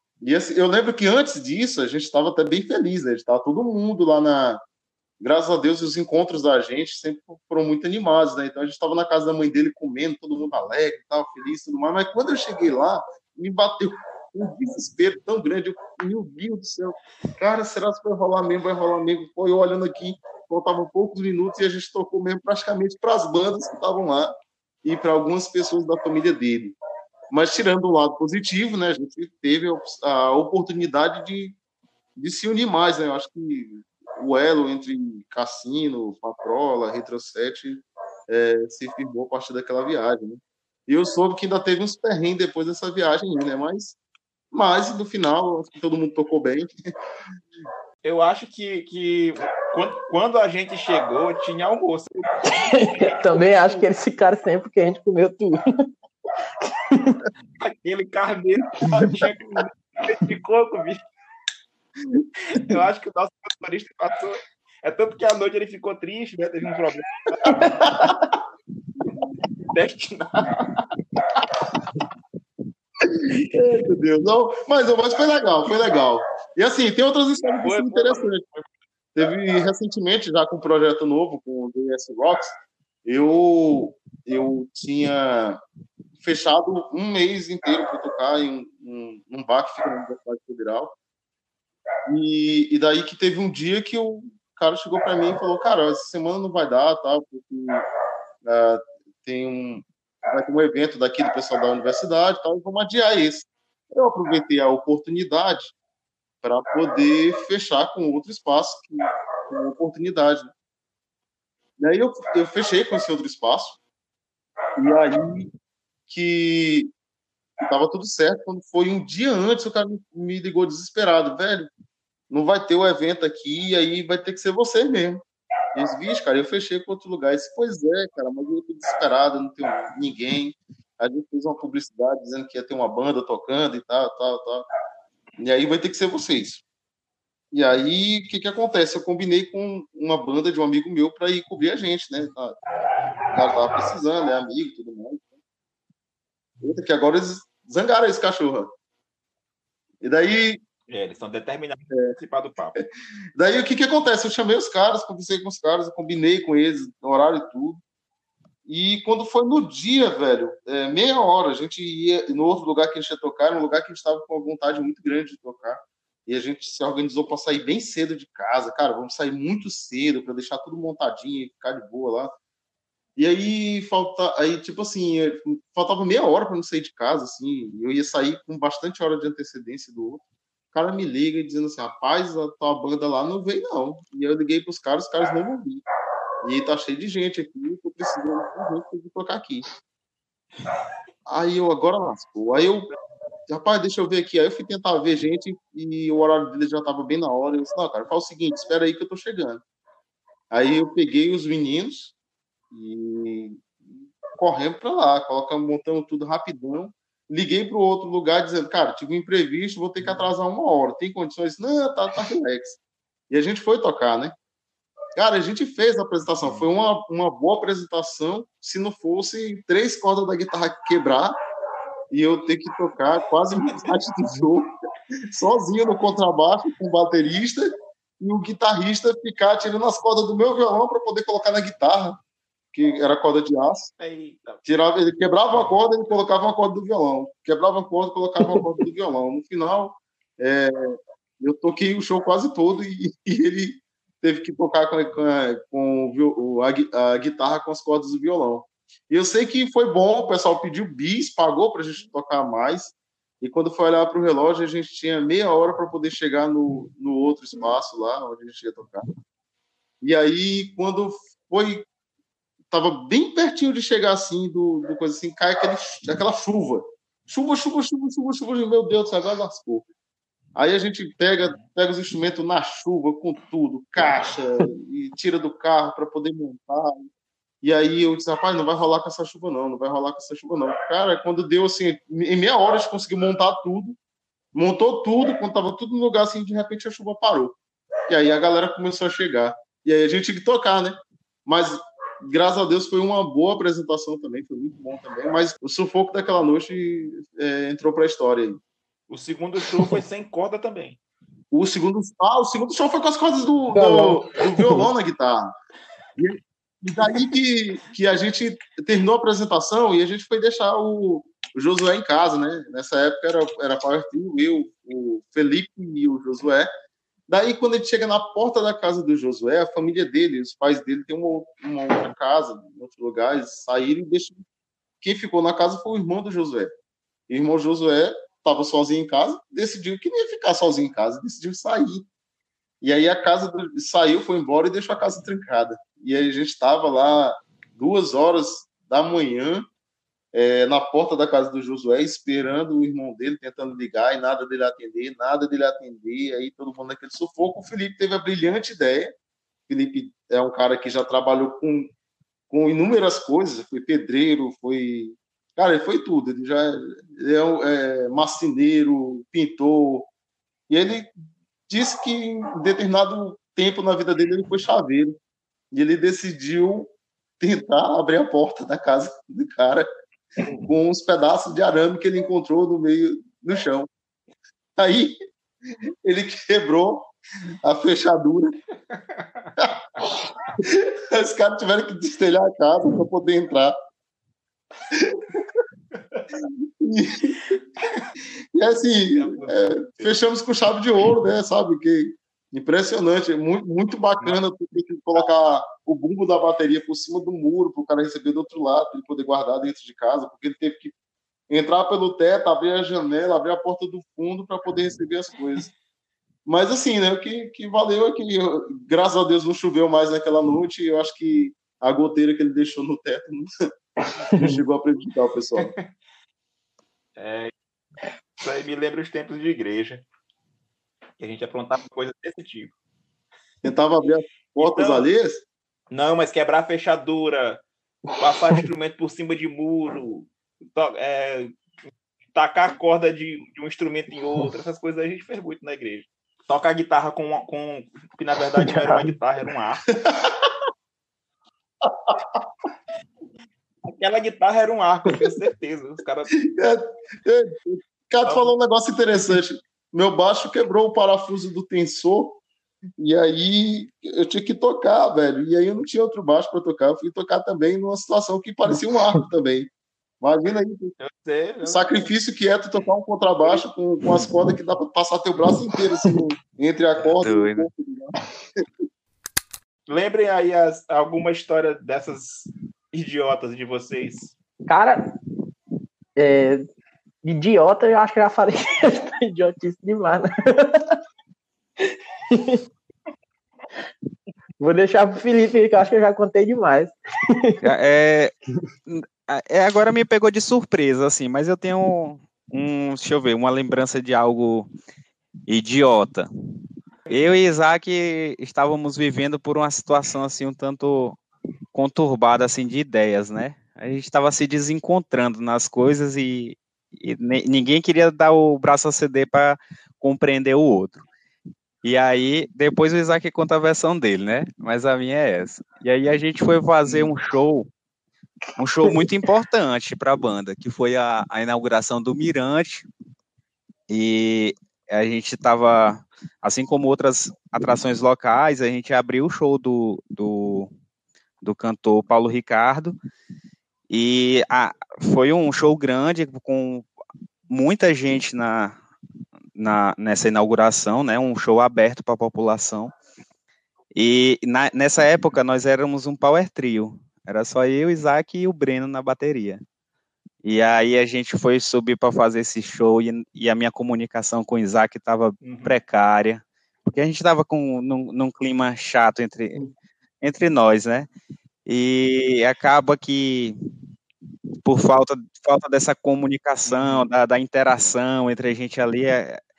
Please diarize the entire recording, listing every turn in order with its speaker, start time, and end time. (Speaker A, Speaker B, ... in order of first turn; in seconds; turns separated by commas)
Speaker A: 0.2-4.6, Speaker A: 5.2-24.3, Speaker A: 24.8-26.8, Speaker A: 27.3-31.6, Speaker A: 32.2-44.0, Speaker A: 44.5-46.7, Speaker B: 48.0-53.9, Speaker C: 52.4-55.6, Speaker C: 56.6-57.3, Speaker B: 57.6-61.0, Speaker B: 62.5-68.1, Speaker A: 67.5-68.1, Speaker B: 69.7-70.8, Speaker A: 73.0-78.4, Speaker B: 77.6-78.7, Speaker A: 79.2-85.6, Speaker A: 86.2-90.9, Speaker A: 92.1-97.9, Speaker A: 98.5-105.7, Speaker A: 106.4-110.5, Speaker A: 111.8-113.8, Speaker A: 114.8-115.5, Speaker A: 116.1-116.9, Speaker A: 117.6-121.7, Speaker A: 122.3-125.2, Speaker A: 125.8-134.7, Speaker A: 135.4-136.6, Speaker A: 137.5-142.6, Speaker A: 143.3-145.2, Speaker A: 146.6-148.7, Speaker A: 150.0-150.6, Speaker B: 150.9-152.8, Speaker A: 153.4-157.8, Speaker A: 158.7-172.3, Speaker A: 173.2-180.2, Speaker A: 180.7-185.8, Speaker A: 186.4-189.7, Speaker A: 191.3-192.9, Speaker A: 193.5-199.6, Speaker A: 200.5-202.1, Speaker A: 202.7-203.7, Speaker A: 204.4-212.8, Speaker A: 213.3-214.3, Speaker A: 215.2-221.4, Speaker B: 216.4-216.7, Speaker A: 222.1-224.7, Speaker A: 225.3-232.2, Speaker A: 232.7-233.9, Speaker B: 234.0-234.6, Speaker A: 234.7-259.1, Speaker C: 238.4-238.7, Speaker A: 260.0-261.9, Speaker A: 262.7-269.9, Speaker A: 270.6-277.1, Speaker A: 277.6-284.0, Speaker A: 284.5-287.6, Speaker A: 288.1-298.6, Speaker B: 299.1-301.0, Speaker A: 301.5-305.6, Speaker C: 303.7-304.9, Speaker A: 306.2-316.7, Speaker A: 317.3-324.4, Speaker A: 325.0-326.7, Speaker A: 327.3-332.1, Speaker A: 332.8-339.7, Speaker A: 340.3-349.1, Speaker A: 349.7-351.9, Speaker A: 352.5-360.1, Speaker A: 360.7-361.1, Speaker A: 361.7-365.2, Speaker A: 365.7-369.9, Speaker A: 370.5-373.9, Speaker A: 374.8-375.2, Speaker A: 376.1-377.1, Speaker A: 377.6-378.6, Speaker B: 378.9-379.5, Speaker A: 379.6-383.7, Speaker A: 384.9-385.6, Speaker B: 385.9-386.2, Speaker A: 386.4-387.5, Speaker A: 388.5-400.9, Speaker B: 389.1-390.2, Speaker A: 401.5-405.7, Speaker A: 406.5-413.5, Speaker C: 414.1-414.6, Speaker A: 414.4-415.7, Speaker B: 415.6-415.9, Speaker B: 417.2-417.5, Speaker B: 418.4-420.1, Speaker B: 421.2-422.7, Speaker A: 423.6-425.4, Speaker B: 424.6-425.1, Speaker B: 425.9-427.6, Speaker B: 428.2-431.6, Speaker B: 432.3-439.9, Speaker C: 438.6-439.1, Speaker A: 440.0-440.6, Speaker A: 441.8-442.4, Speaker B: 443.9-446.3, Speaker A: 446.5-452.4, Speaker B: 448.2-448.5, Speaker A: 453.0-459.7, Speaker A: 460.2-460.9, Speaker B: 461.0-462.1, Speaker A: 461.6-468.7, Speaker D: 467.1-467.7, Speaker B: 469.9-474.3, Speaker C: 474.7-475.0, Speaker C: 476.2-476.6, Speaker C: 477.2-481.0, Speaker C: 481.8-482.6, Speaker C: 484.6-487.6, Speaker D: 487.6-488.3, Speaker D: 488.9-494.7, Speaker D: 495.5-496.3, Speaker D: 497.1-501.2, Speaker D: 501.7-511.0, Speaker D: 511.8-517.7, Speaker C: 516.9-517.1, Speaker D: 518.6-522.9, Speaker C: 518.8-519.1, Speaker D: 523.9-530.7, Speaker D: 531.4-533.0, Speaker D: 533.9-536.9, Speaker D: 537.5-538.8, Speaker D: 539.6-542.9, Speaker D: 544.0-549.6, Speaker D: 550.4-559.6, Speaker B: 555.4-555.8, Speaker D: 560.2-561.1, Speaker D: 561.7-563.6, Speaker D: 564.6-569.4, Speaker B: 566.7-567.1